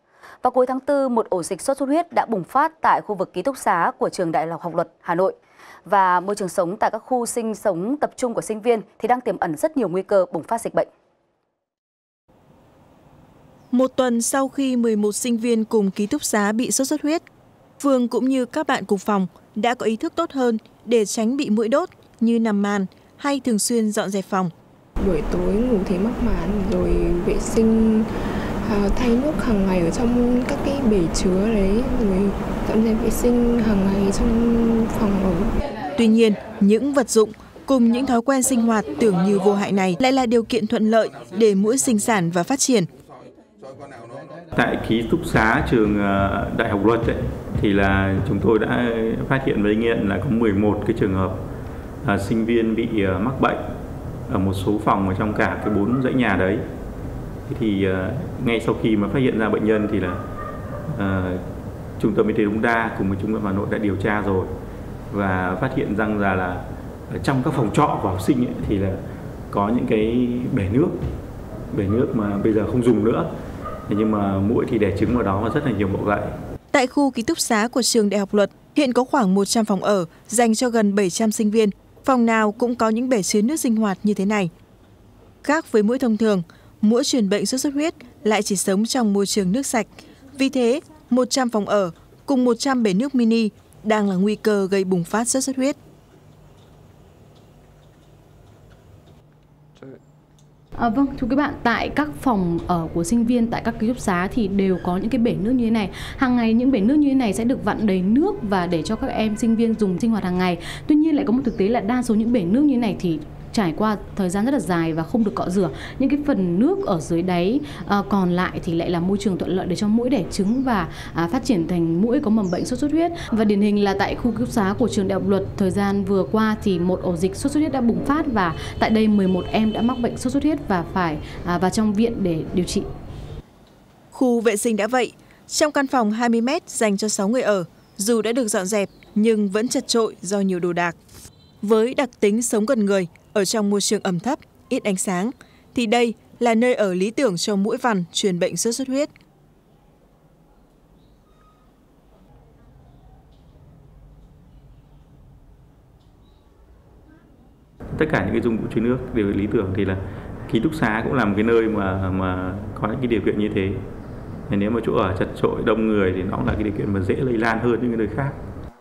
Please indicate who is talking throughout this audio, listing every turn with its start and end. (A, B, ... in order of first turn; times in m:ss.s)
0:00.4-0:10.9 A
0:13.7-0:17.2 B
0:17.8-0:24.5 B
0:25.0-0:28.1 C
0:28.6-0:35.5 C
0:36.0-0:42.9 B
0:44.5-0:51.4 D
0:52.0-0:53.6 D
0:54.3-0:56.6 D
0:57.5-1:00.2 D
1:00.9-1:01.4 D
1:02.0-1:04.5 D
1:05.1-1:09.0 D
1:09.5-1:10.9 D
1:11.7-1:13.2 D
1:13.9-1:16.3 D
1:16.7-1:24.5 B
1:25.4-1:35.8 B
1:40.8-2:12.8 E
2:14.1-2:21.0 B
2:21.6-2:29.1 B
2:37.9-2:43.8 D
2:44.5-2:48.4 D